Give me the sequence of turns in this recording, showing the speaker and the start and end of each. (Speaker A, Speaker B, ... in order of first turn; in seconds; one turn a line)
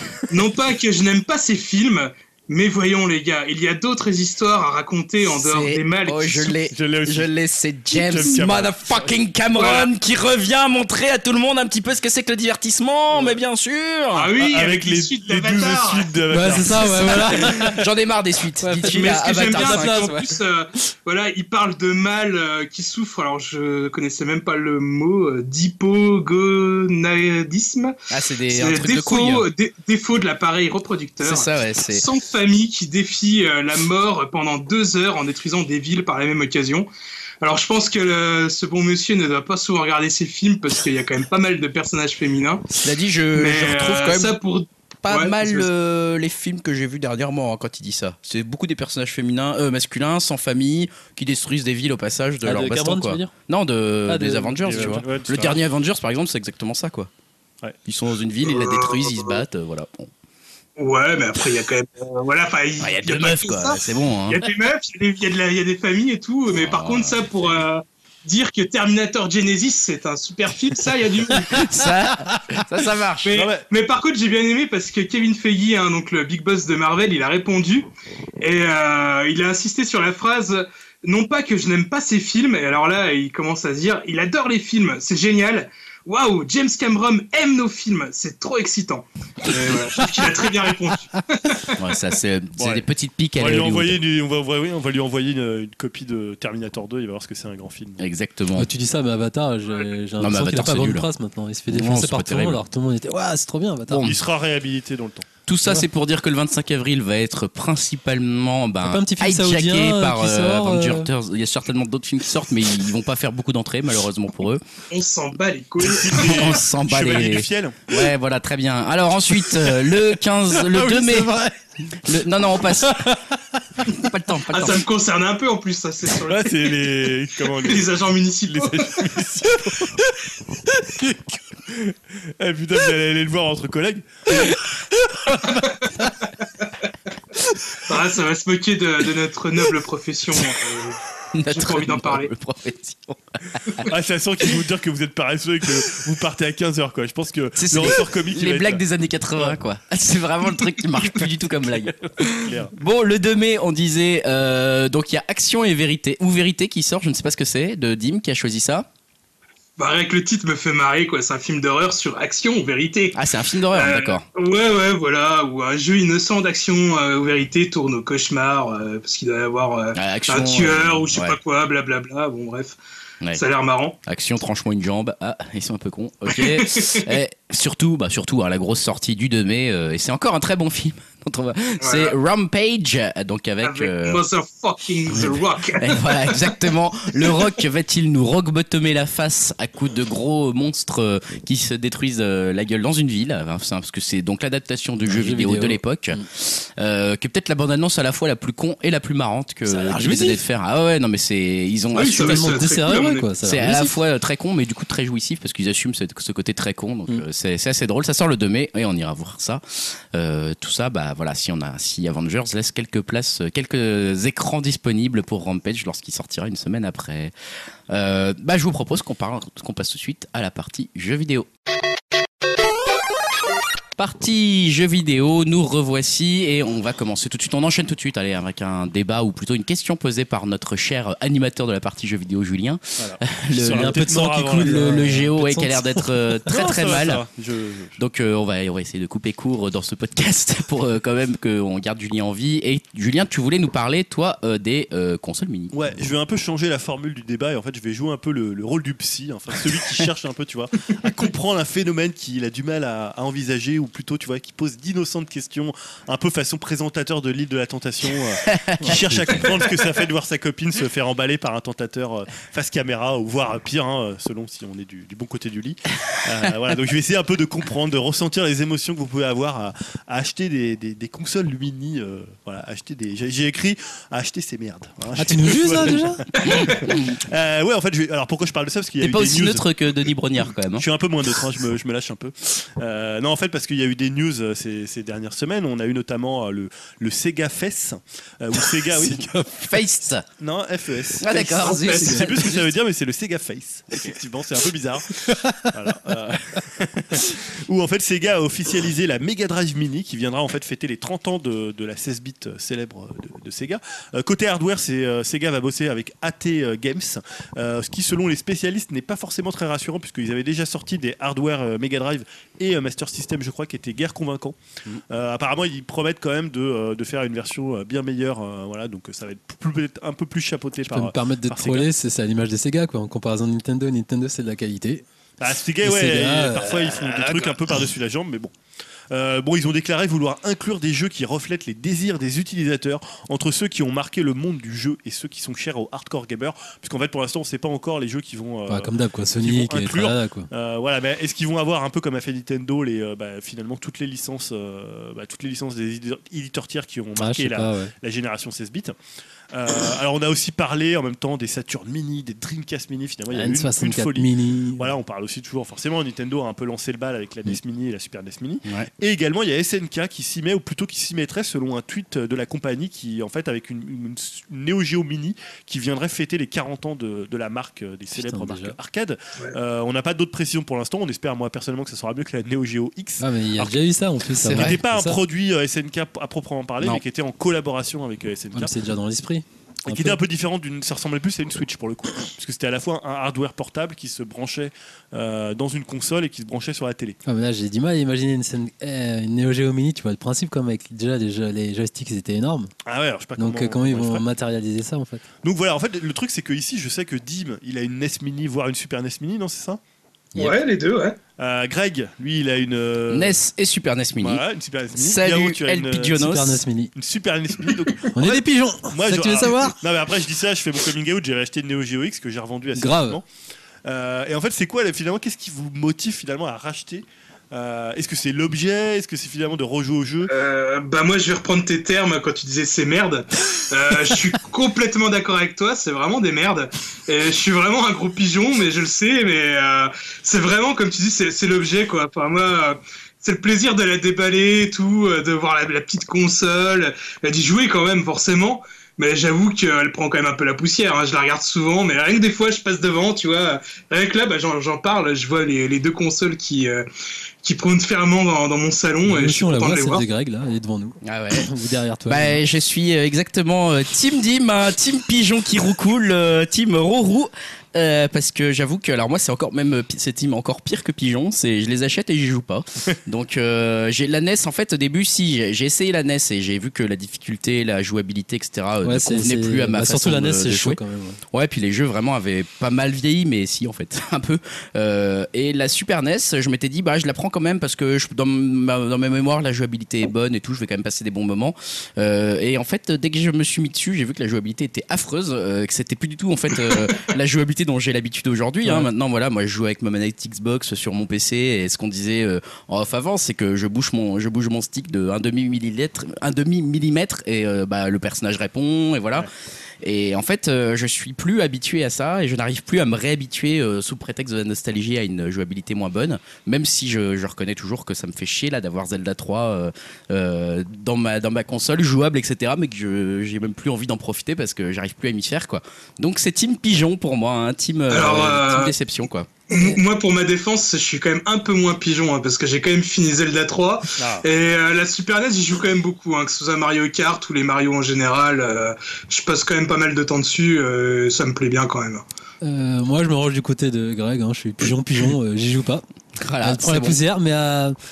Speaker A: 0.3-6.6
Speaker B: 5.2-14.3
Speaker C: 6.7-7.3
Speaker C: 7.9-9.1
Speaker A: 9.5-9.9
Speaker A: 14.1-16.8
Speaker C: 14.4-17.6
Speaker D: 16.3-17.8
Speaker B: 17.2-20.1
Speaker D: 18.6-20.4
Speaker A: 18.8-27.9
Speaker B: 28.1-29.5
Speaker A: 28.5-36.9
Speaker B: 31.2-32.1
Speaker A: 37.4-42.8
Speaker B: 42.8-44.4
Speaker A: 43.3-45.7
Speaker B: 45.0-57.1
Speaker D: 52.4-53.3
Speaker D: 54.0-55.0
Speaker C: 54.6-55.6
Speaker B: 57.9-60.1
Speaker A: 58.4-59.4
Speaker A: 60.8-71.7
Speaker B: 62.8-64.5
Speaker B: 66.5-67.6
Speaker B: 71.4-73.3
Speaker A: 73.2-77.9
Speaker C: 73.3-73.6
Speaker A: 78.4-91.9
Speaker B: 91.7-94.0
Speaker C: 92.6-92.8
Speaker C: 93.4-98.0
Speaker B: 98.0-98.7
Speaker D: 98.5-104.0
Speaker B: 100.2-101.1
Speaker B: 101.7-102.6
Speaker B: 103.9-104.2
Speaker C: 104.0-105.3
Speaker B: 105.5-114.6
Speaker D: 108.8-111.1
Speaker A: 114.9-116.5
Speaker C: 115.8-117.9
Speaker B: 116.1-121.3
Speaker D: 120.7-121.5
Speaker B: 122.0-123.2
Speaker D: 123.0-123.4
Speaker B: 123.8-124.9
Speaker A: 124.5-129.2
Speaker C: 126.3-130.1
Speaker C: 130.8-134.6
Speaker C: 135.3-135.7
Speaker A: 135.5-136.7
Speaker A: 137.7-142.3
Speaker B: 141.3-143.9
Speaker C: 143.8-148.8
Speaker B: 147.6-158.9
Speaker C: 152.4-152.7
Speaker A: 159.8-163.2
Speaker B: 163.1-164.2
Speaker A: 163.7-172.8
Speaker B: 169.9-171.4
Speaker A: 173.3-173.9
Speaker B: 174.1-184.2
Speaker A: 176.3-177.1
Speaker A: 181.8-182.2
Speaker A: 183.6-186.5
Speaker B: 185.1-202.7
Speaker D: 195.1-196.3
Speaker D: 199.7-200.4
Speaker A: 201.9-203.3
Speaker D: 202.2-203.9
Speaker B: 203.4-217.3
Speaker B: 217.9-221.5
Speaker B: 223.9-237.2
Speaker C: 233.0-235.3
Speaker D: 233.6-236.5
Speaker C: 236.5-238.0
Speaker B: 238.0-245.7
Speaker C: 245.7-279.6
Speaker B: 258.4-259.5
Speaker D: 258.8-259.2
Speaker D: 275.2-276.2
Speaker A: 276.4-276.9
Speaker B: 276.4-277.2
Speaker B: 279.0-280.8
Speaker C: 280.7-289.3
Speaker B: 288.9-290.2
Speaker C: 290.4-314.6
Speaker B: 291.2-292.7
Speaker A: 291.7-292.2
Speaker C: 315.1-321.9
Speaker D: 320.8-325.0
Speaker C: 325.4-328.5
Speaker D: 325.8-326.9
Speaker A: 327.0-327.5
Speaker C: 329.1-348.9
Speaker D: 338.7-340.5
Speaker D: 347.1-347.9
Speaker C: 349.5-373.7
Speaker D: 353.3-354.9
Speaker D: 368.1-368.8
Speaker D: 373.2-375.2
Speaker B: 374.4-374.8
Speaker C: 374.5-378.7
Speaker D: 378.5-380.2
Speaker C: 379.9-387.2
Speaker D: 387.2-392.7
Speaker C: 392.9-394.2
Speaker D: 393.4-395.2
Speaker C: 395.4-399.8
Speaker A: 400.4-401.2
Speaker C: 401.4-403.4
Speaker B: 403.1-406.6
Speaker C: 404.2-406.2
Speaker D: 406.1-406.9
Speaker C: 406.9-413.2
Speaker D: 408.1-409.8
Speaker D: 412.7-413.2
Speaker C: 413.8-420.3
Speaker A: 420.3-446.9
Speaker A: 447.4-450.0
Speaker D: 449.1-452.4
Speaker B: 451.0-451.5
Speaker B: 452.1-470.8
Speaker D: 468.8-471.2
Speaker B: 471.3-499.3
Speaker D: 488.6-488.9
Speaker B: 499.8-519.3
Speaker A: 517.9-518.7
Speaker A: 519.5-532.0
Speaker C: 524.0-524.3
Speaker D: 532.4-535.8
Speaker B: 536.1-537.0
Speaker D: 536.4-537.8